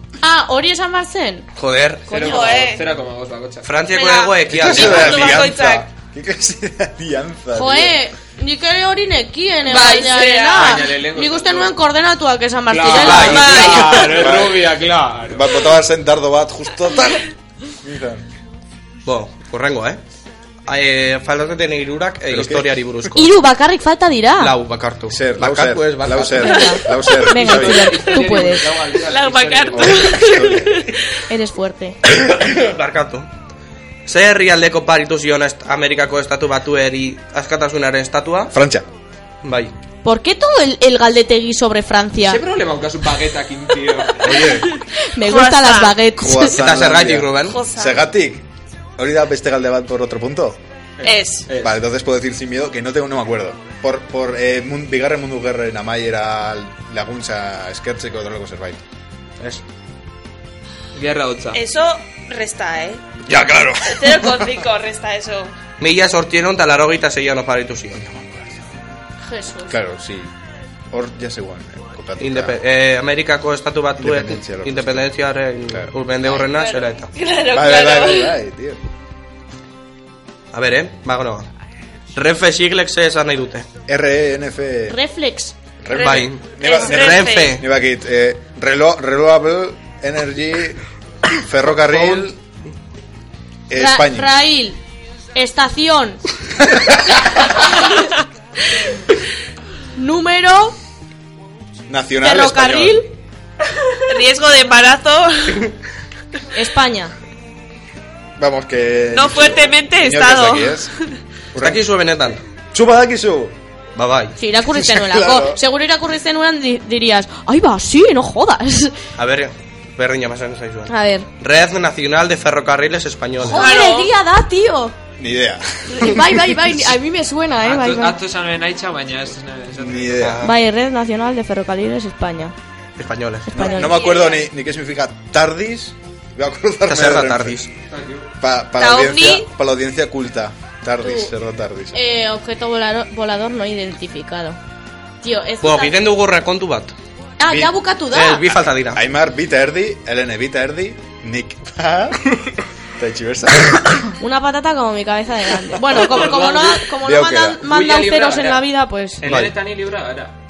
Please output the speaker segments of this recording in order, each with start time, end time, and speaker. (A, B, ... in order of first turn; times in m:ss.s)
0:00.2-0:01.5 A
0:01.6-0:02.4 B
0:02.1-0:03.7 C
0:02.1-0:02.6 A
0:02.2-0:02.8 D
0:03.6-0:05.5 B
0:03.9-0:05.8 D
0:04.5-0:08.0 E
0:07.5-0:14.0 A
0:09.6-0:10.9 D
0:10.5-0:11.8 C
0:12.7-0:15.6 C
0:12.9-0:14.0 B
0:13.2-0:14.2 D
0:13.9-0:14.7 E
0:15.2-0:17.3 E
0:17.8-0:18.2 E
0:19.0-0:20.0 B
0:20.7-0:23.3 B
0:22.3-0:22.8 E
0:23.1-0:24.5 A
0:24.4-0:26.7 B
0:25.1-0:28.1 E
0:26.4-0:28.7 A
0:27.3-0:30.1 C
0:29.0-0:31.0 D
0:29.7-0:30.9 E
0:31.3-0:32.0 A
0:32.0-0:33.3 B
0:34.0-0:38.5 B
0:38.5-0:38.8 E
0:39.4-0:39.7 B
0:40.0-0:42.4 A
0:42.2-0:44.5 C
0:44.2-0:44.7 E
0:45.1-0:46.6 A
0:45.2-0:46.0 D
0:46.2-0:48.4 E
0:46.5-0:47.6 B
0:47.5-0:48.1 D
0:49.0-0:50.6 E
0:51.0-0:51.8 C
0:51.0-0:51.5 D
0:51.6-0:58.8 E
1:00.9-1:01.6 C
1:01.5-1:03.0 D
1:03.2-1:04.5 E
1:03.9-1:05.5 D
1:05.8-1:08.0 B
1:08.0-1:08.9 E
1:09.2-1:09.7 A
1:09.7-1:10.3 E
1:10.9-1:12.6 E
1:12.2-1:17.1 B
1:14.0-1:15.1 E
1:16.5-1:18.3 D
1:17.5-1:18.8 E
1:20.5-1:21.5 B
1:22.1-1:23.7 B
1:23.9-1:25.0 E
1:24.9-1:25.6 A
1:25.8-1:30.8 E
1:25.9-1:27.6 B
1:26.0-1:27.5 D
1:31.4-1:32.4 E
1:31.7-1:32.3 B
1:33.7-1:34.4 E
1:33.8-1:34.8 A
1:35.3-1:36.2 A
1:36.7-1:37.2 E
1:40.0-1:40.7 A
1:41.9-1:43.0 E
1:42.2-1:43.1 A
1:44.1-1:45.6 D
1:46.5-1:47.1 A
1:48.4-1:50.9 E
1:49.1-1:50.8 D
1:51.5-1:51.8 E
1:51.6-1:52.4 B
1:52.7-1:53.5 E
1:54.0-1:54.4 B
1:54.4-1:59.0 A
1:54.7-1:55.6 E
1:59.2-2:03.8 B
2:00.9-2:01.3 A
2:03.4-2:05.0 A
2:03.5-2:04.1 D
2:05.2-2:07.0 E
2:05.9-2:08.2 A
2:07.6-2:10.2 C
2:09.7-2:10.5 E
2:10.2-2:10.5 B
2:10.4-2:12.5 A
2:13.0-2:13.5 B
2:13.5-2:14.4 A
2:13.5-2:17.6 E
2:16.9-2:17.7 B
2:17.9-2:18.3 C
2:18.4-2:22.0 E
2:18.8-2:19.4 D
2:21.0-2:21.3 A
2:21.9-2:24.6 A
2:25.2-2:26.0 A
2:25.6-2:26.9 B
2:27.4-2:28.4 A
2:27.4-2:27.8 E
2:28.1-2:29.0 B
2:28.9-2:32.3 E
2:33.0-2:34.1 E
2:34.2-2:39.2 A
2:35.9-2:36.9 C
2:36.9-2:37.6 E
2:37.6-2:38.7 C
2:39.2-2:40.3 C
2:39.2-2:39.5 B